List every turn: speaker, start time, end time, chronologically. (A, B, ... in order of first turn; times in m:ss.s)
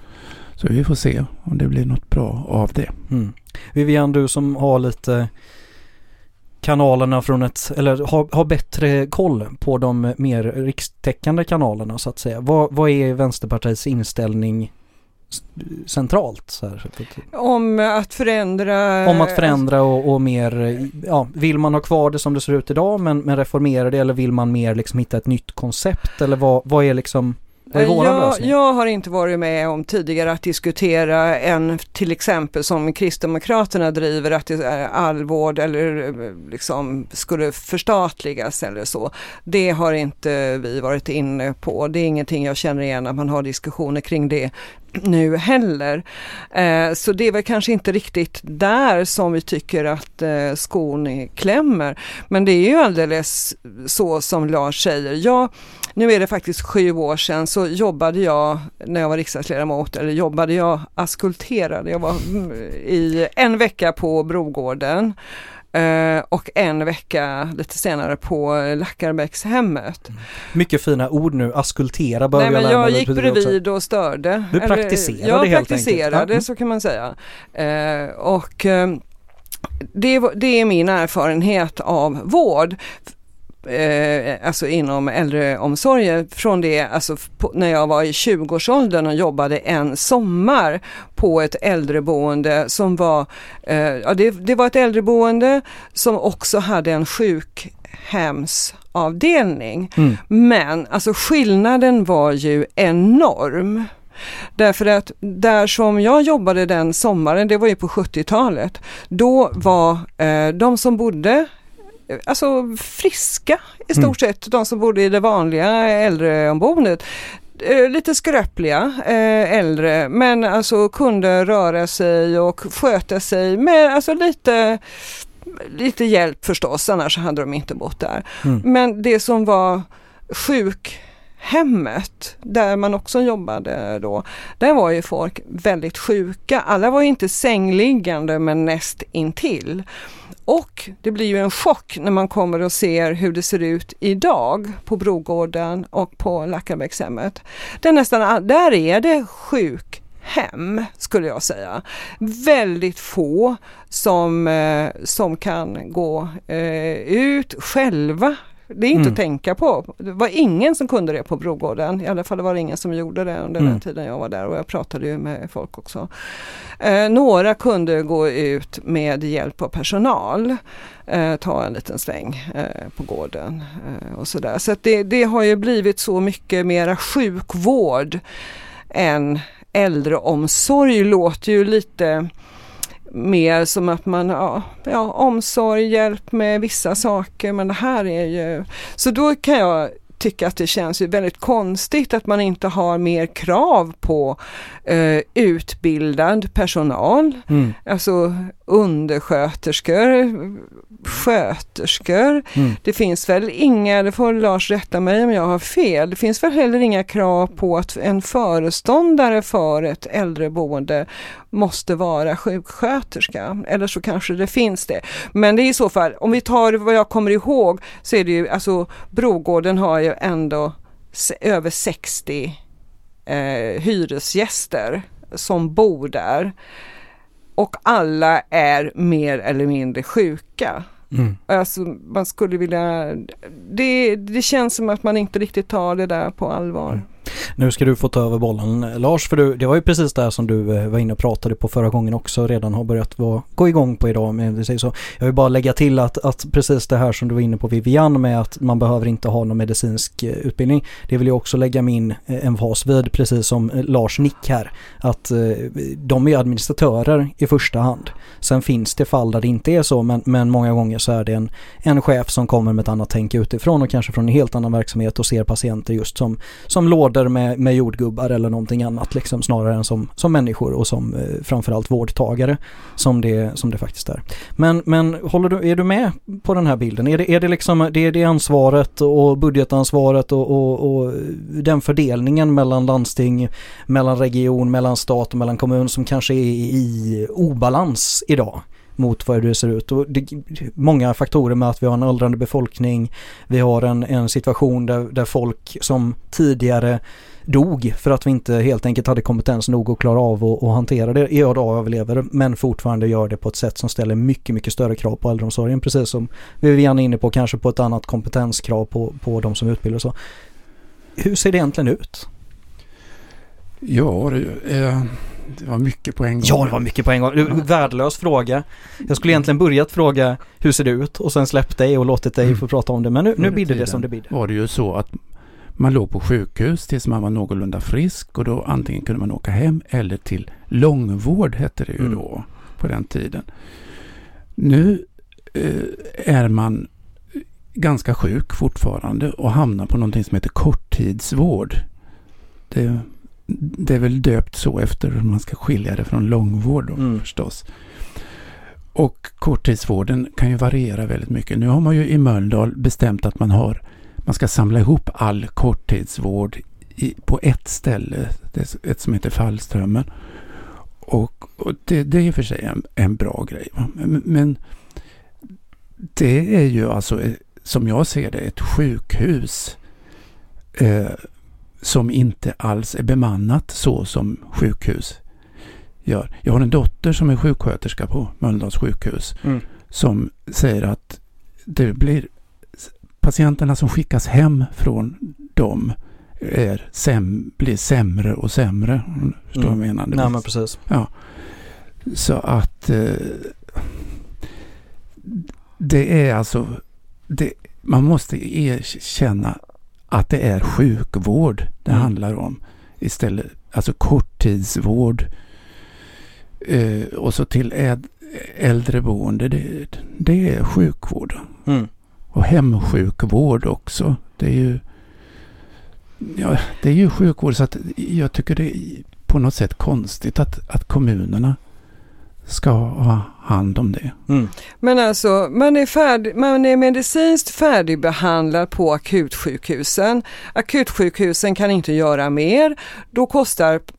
0:00.6-0:03.0 A
0:03.1-0:05.3 B
0:06.6-0:14.7 B
0:15.3-0:17.2 B
0:17.3-0:19.6 C
0:19.0-0:28.5 B
0:27.7-1:05.2 C
1:05.7-1:10.1 C
1:10.5-1:13.6 B
1:12.3-1:19.0 C
1:14.5-1:16.4 B
1:19.9-1:22.8 C
1:23.6-1:43.9 C
1:44.6-1:51.5 C
1:52.1-2:19.8 C
2:20.5-2:58.2 C
2:38.9-2:39.2 B
2:58.9-3:02.3 C
3:03.1-3:42.6 C
3:17.5-3:17.8 B
3:43.3-3:46.5 C
3:47.6-3:50.8 C
3:51.1-3:51.4 B
3:51.5-3:57.0 C
3:57.6-5:10.1 B
5:11.2-5:12.3 B
5:13.8-5:16.8 A
5:16.4-5:24.3 B
5:23.4-5:25.2 A
5:25.8-5:33.5 A
5:34.6-5:41.8 A
5:42.7-5:47.7 A
5:48.9-6:04.6 A
6:06.1-6:09.8 A
6:10.7-6:11.3 A
6:11.8-6:15.2 A
6:16.0-6:31.4 A
6:29.6-6:30.8 B
6:32.0-6:34.1 A
6:35.2-6:39.6 A
6:40.1-6:45.3 A
6:46.6-6:51.6 A
6:52.3-6:54.8 A
6:56.2-7:01.6 A
7:02.4-7:04.2 A
7:04.8-7:13.8 C